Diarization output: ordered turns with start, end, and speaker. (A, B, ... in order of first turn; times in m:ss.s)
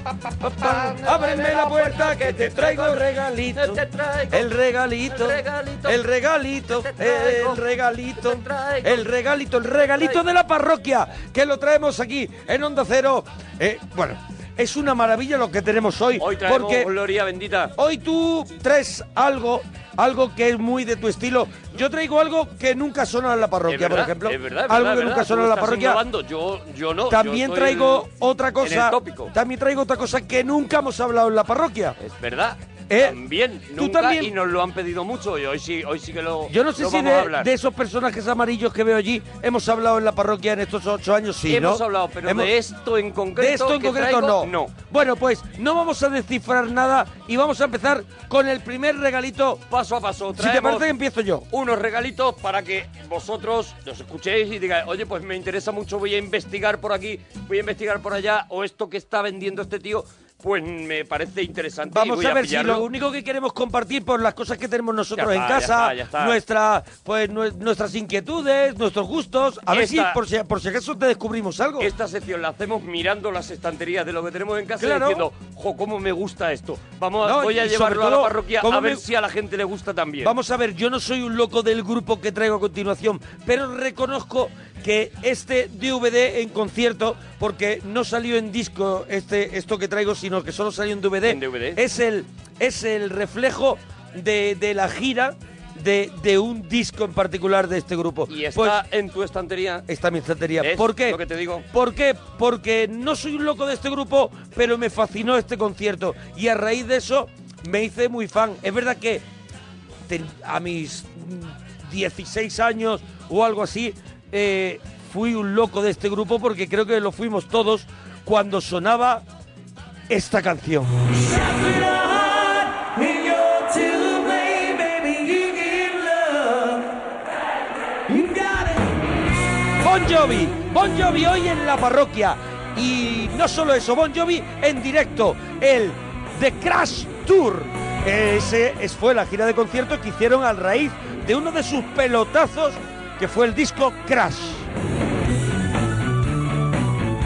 0:00.4-0:16.9 A
0:16.2-0:17.7 B
0:17.8-0:26.0 A
0:23.7-0:28.1 B
0:27.1-0:32.0 A
0:28.6-0:29.3 B
0:32.0-0:37.5 B
0:32.9-0:33.2 A
0:33.7-0:34.3 A
0:36.5-0:42.5 A
0:41.5-0:44.8 B
0:43.4-0:49.6 A
0:49.7-0:50.9 B
0:50.4-0:51.5 A
0:51.5-1:02.9 B
1:01.9-1:11.9 A
1:05.2-1:06.4 B
1:09.7-1:10.2 B
1:11.8-1:20.4 B
1:14.8-1:15.3 A
1:17.2-1:19.0 A
1:20.2-1:38.8 A
1:31.3-1:31.8 B
1:38.3-1:39.8 B
1:39.9-1:41.2 A
1:40.6-1:41.6 B
1:41.7-1:49.2 A
1:50.1-1:59.2 A
2:00.1-2:01.2 A
2:01.2-2:06.9 C
2:08.1-2:08.9 C
2:09.8-2:24.7 A